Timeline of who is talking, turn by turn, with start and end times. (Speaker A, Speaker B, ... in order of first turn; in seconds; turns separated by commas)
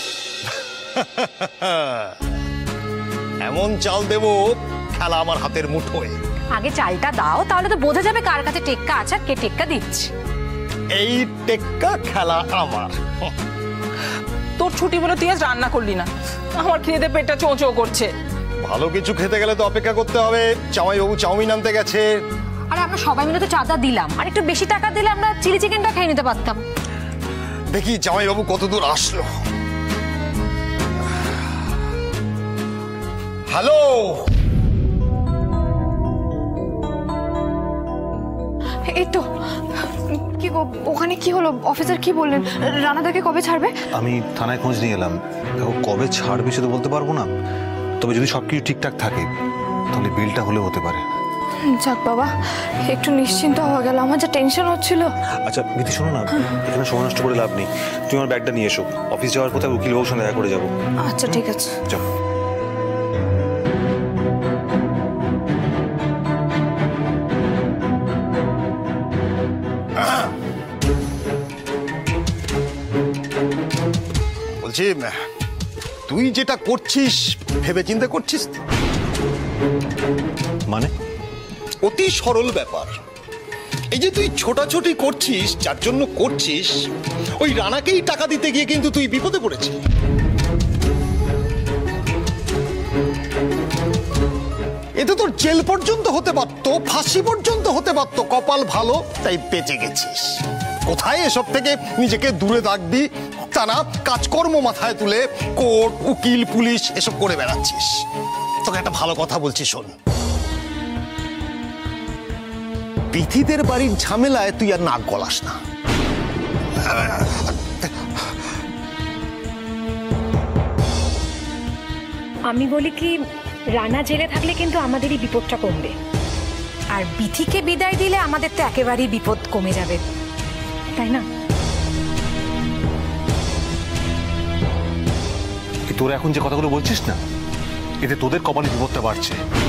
Speaker A: 1.0-2.1, Speaker A: 3.4-6.2, Speaker B: 6.5-10.1, Speaker A: 10.9-12.9, Speaker C: 14.6-18.1, Speaker A: 18.6-22.0, Speaker B: 22.7-26.6, Speaker A: 27.7-29.3, Speaker A: 33.5-34.2, Speaker D: 38.9-43.7, Speaker E: 43.9-47.3, Speaker E: 48.0-49.3, Speaker E: 49.9-51.0, Speaker D: 51.6-52.3, Speaker D: 52.9-55.1, Speaker E: 55.5-60.7, Speaker D: 61.1-61.7, Speaker E: 61.2-62.0, Speaker A: 74.6-75.1, Speaker A: 76.1-78.6, Speaker A: 81.8-82.9, Speaker A: 83.9-86.7, Speaker A: 87.4-89.8, Speaker A: 95.0-100.3, Speaker A: 100.9-108.0, Speaker A: 108.6-109.9, Speaker A: 113.1-115.5, Speaker A: 116.8-117.9, Speaker F: 122.5-123.1, Speaker F: 123.8-125.9, Speaker F: 127.0-127.3, Speaker B: 127.2-130.0, Speaker E: 135.9-137.2, Speaker E: 138.0-139.4